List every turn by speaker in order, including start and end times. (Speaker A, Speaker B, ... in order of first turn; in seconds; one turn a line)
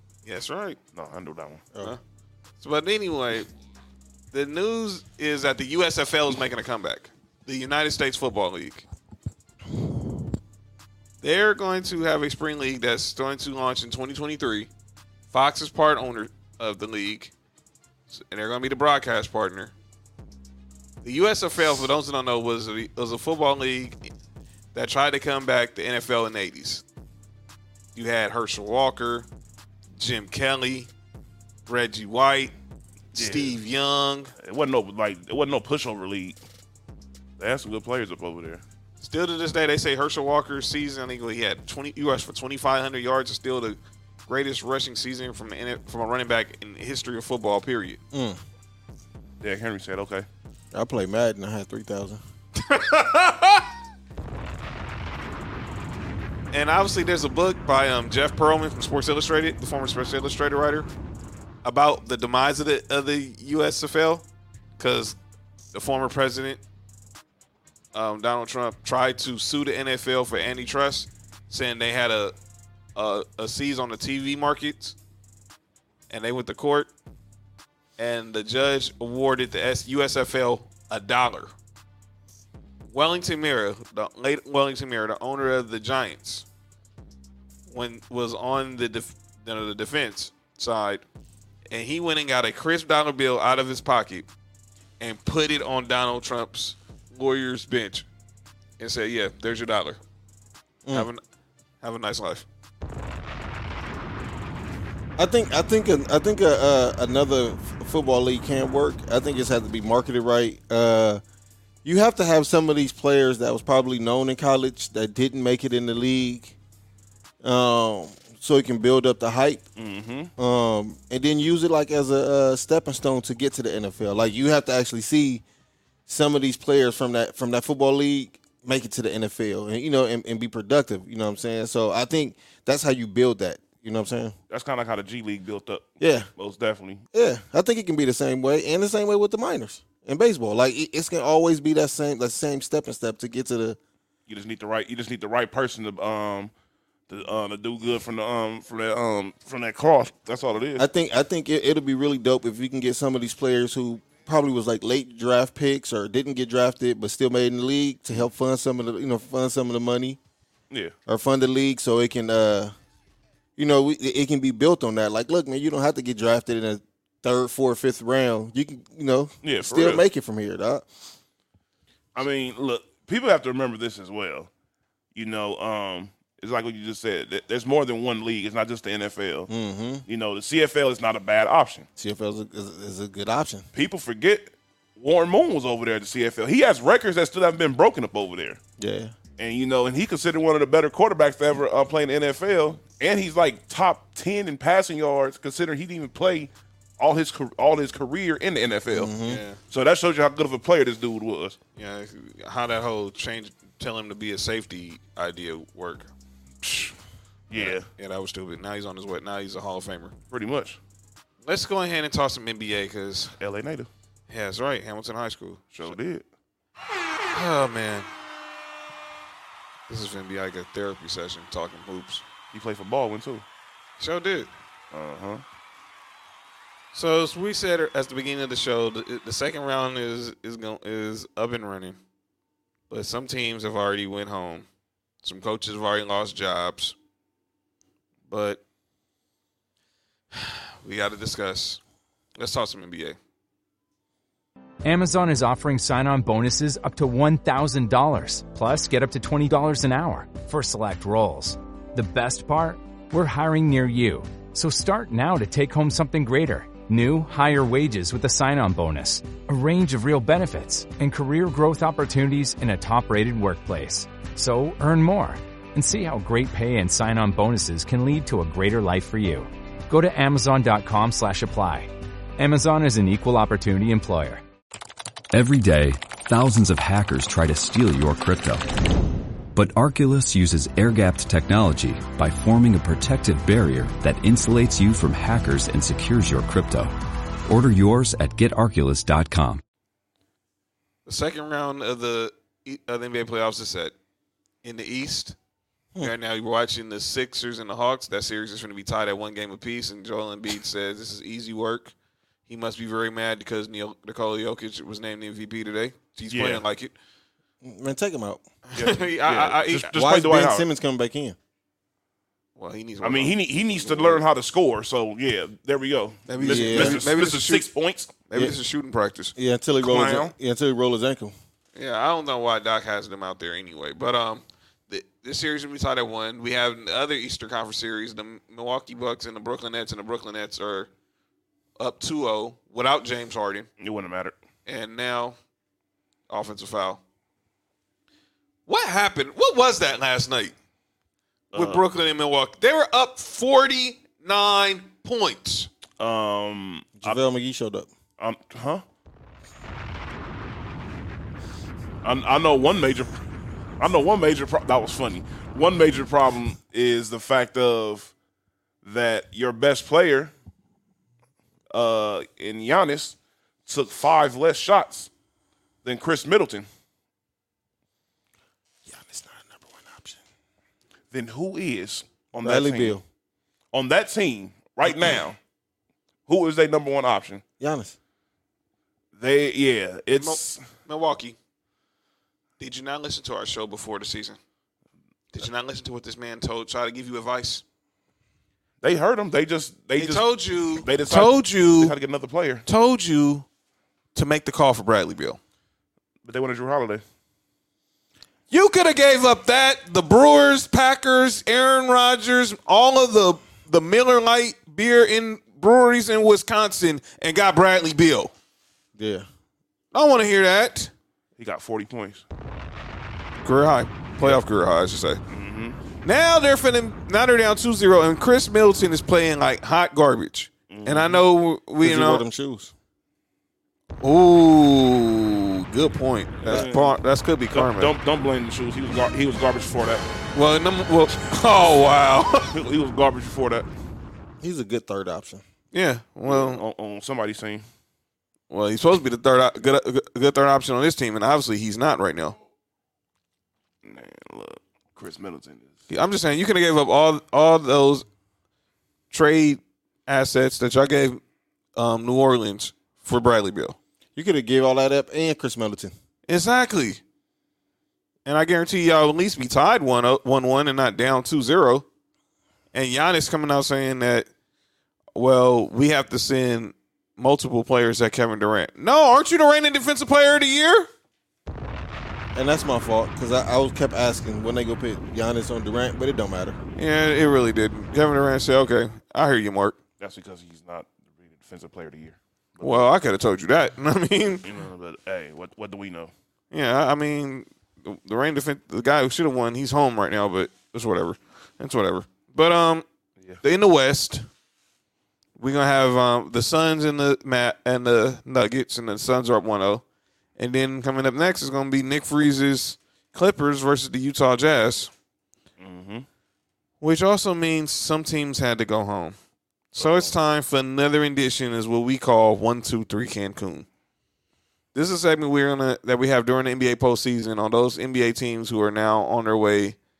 Speaker A: 0.2-0.8
Speaker B: 0.9-1.7
Speaker A: 2.6-3.5
Speaker A: 4.3-8.9
Speaker A: 11.2-14.7
Speaker A: 15.3-17.3
Speaker A: 18.1-19.7
Speaker A: 21.0-24.0
Speaker A: 24.7-26.8
Speaker A: 27.9-29.3
Speaker A: 30.0-30.9
Speaker A: 31.7-32.5
Speaker B: 33.1-33.6
Speaker A: 33.1-34.3
Speaker B: 34.4-36.4
Speaker B: 37.4-38.6
Speaker A: 39.0-48.0
Speaker C: 48.1-48.4
Speaker B: 49.4-50.3
Speaker C: 50.7-52.2
Speaker A: 52.6-53.7
Speaker A: 56.5-60.9
Speaker A: 61.6-64.3
Speaker A: 64.8-65.2
Speaker A: 65.7-66.6
Speaker A: 67.9-72.3
Speaker A: 73.0-75.0
Speaker A: 76.1-76.9
Speaker A: 78.0-81.5
Speaker A: 82.9-86.5
Speaker A: 87.7-91.0
Speaker A: 91.7-94.3
Speaker A: 95.0-98.1
Speaker A: 98.8-100.0
Speaker C: 100.8-101.1
Speaker A: 100.9-101.2
Speaker A: 101.8-102.5
Speaker C: 105.2-111.2
Speaker C: 111.8-116.6
Speaker C: 117.4-119.7
Speaker B: 119.8-120.3
Speaker C: 120.4-125.4
Speaker C: 126.1-134.4
Speaker B: 134.5-137.0
Speaker C: 136.0-136.3
Speaker C: 137.1-143.8
Speaker B: 144.3-146.5
Speaker B: 147.1-150.8
Speaker C: 150.8-160.2
Speaker C: 161.1-162.7
Speaker C: 163.6-170.9
Speaker B: 169.4-170.0
Speaker B: 172.1-174.5
Speaker B: 175.1-179.5
Speaker C: 179.5-180.1
Speaker B: 180.1-181.9
Speaker C: 182.0-183.7
Speaker B: 183.7-188.6
Speaker C: 188.8-189.2
Speaker B: 189.4-199.1
Speaker C: 198.9-199.4
Speaker A: 199.3-199.6
Speaker B: 199.7-201.6
Speaker A: 201.8-206.1
Speaker A: 206.6-206.9
Speaker B: 207.5-207.9
Speaker A: 207.5-210.1
Speaker B: 210.3-210.8
Speaker A: 211.4-213.3
Speaker B: 213.4-213.9
Speaker A: 214.3-216.0
Speaker B: 215.8-216.3
Speaker A: 217.3-218.1
Speaker A: 219.9-222.2
Speaker B: 222.5-223.4
Speaker A: 224.0-224.5
Speaker B: 224.9-225.4
Speaker A: 226.9-232.0
Speaker A: 232.9-234.7
Speaker A: 235.2-236.9
Speaker A: 238.3-238.6
Speaker A: 240.3-241.8
Speaker A: 242.4-243.2
Speaker D: 244.8-274.4
Speaker E: 275.3-278.7
Speaker E: 279.6-286.9
Speaker E: 287.4-289.6
Speaker A: 291.1-293.9
Speaker A: 294.6-295.4
Speaker A: 296.0-301.9
Speaker A: 302.4-306.9
Speaker B: 306.3-306.6
Speaker C: 307.6-308.4
Speaker A: 308.7-309.9
Speaker B: 308.7-310.7
Speaker C: 309.9-311.4
Speaker A: 312.6-314.2
Speaker B: 313.0-318.2
Speaker A: 316.3-317.7
Speaker C: 316.4-317.0
Speaker A: 318.3-319.3
Speaker C: 319.4-321.3
Speaker B: 319.8-320.3
Speaker A: 321.7-330.9
Speaker A: 331.8-333.7
Speaker B: 333.8-334.4
Speaker A: 334.7-335.4
Speaker A: 336.3-337.0
Speaker A: 338.7-340.6
Speaker B: 341.5-341.8
Speaker A: 341.5-345.7
Speaker B: 346.0-347.2
Speaker C: 347.0-347.9
Speaker B: 348.2-348.8
Speaker B: 352.0-353.1
Speaker B: 353.8-358.1
Speaker B: 358.8-360.3
Speaker B: 361.7-365.1
Speaker B: 365.8-366.7
Speaker C: 368.9-370.2
Speaker B: 371.1-373.0
Speaker C: 372.4-373.0
Speaker B: 373.7-375.4
Speaker B: 376.3-377.4
Speaker C: 377.6-377.9
Speaker B: 379.1-380.6
Speaker A: 380.2-381.4
Speaker A: 382.6-384.4
Speaker A: 385.3-387.6
Speaker B: 388.8-392.6
Speaker A: 390.0-391.9
Speaker A: 392.7-393.4
Speaker A: 394.1-395.4
Speaker B: 396.2-397.0
Speaker A: 398.5-408.3
Speaker C: 408.9-409.3
Speaker A: 409.9-410.9
Speaker B: 411.4-412.2
Speaker A: 413.4-415.2
Speaker B: 414.2-414.4
Speaker B: 415.3-415.8
Speaker A: 416.0-422.2
Speaker B: 420.7-421.2
Speaker C: 421.8-422.7
Speaker A: 424.0-427.9
Speaker B: 426.4-427.0
Speaker B: 427.5-430.0
Speaker A: 430.4-432.5
Speaker B: 432.5-433.7
Speaker C: 434.4-435.4
Speaker A: 435.7-436.6
Speaker B: 436.2-437.6
Speaker A: 438.5-442.4
Speaker B: 443.8-445.7
Speaker A: 445.9-448.1
Speaker A: 449.1-451.2
Speaker A: 451.8-453.8
Speaker C: 454.2-455.9
Speaker A: 456.3-457.0
Speaker A: 458.3-461.9
Speaker A: 462.7-464.3
Speaker A: 465.1-470.9
Speaker C: 472.3-476.6
Speaker A: 476.8-479.8
Speaker B: 480.0-482.9
Speaker A: 482.6-484.4
Speaker B: 484.4-486.1
Speaker A: 486.5-492.9
Speaker A: 493.4-494.2
Speaker A: 495.4-499.8
Speaker A: 500.4-504.9
Speaker B: 505.6-506.1
Speaker A: 506.8-509.2
Speaker A: 509.7-513.7
Speaker B: 509.8-510.1
Speaker A: 514.7-519.8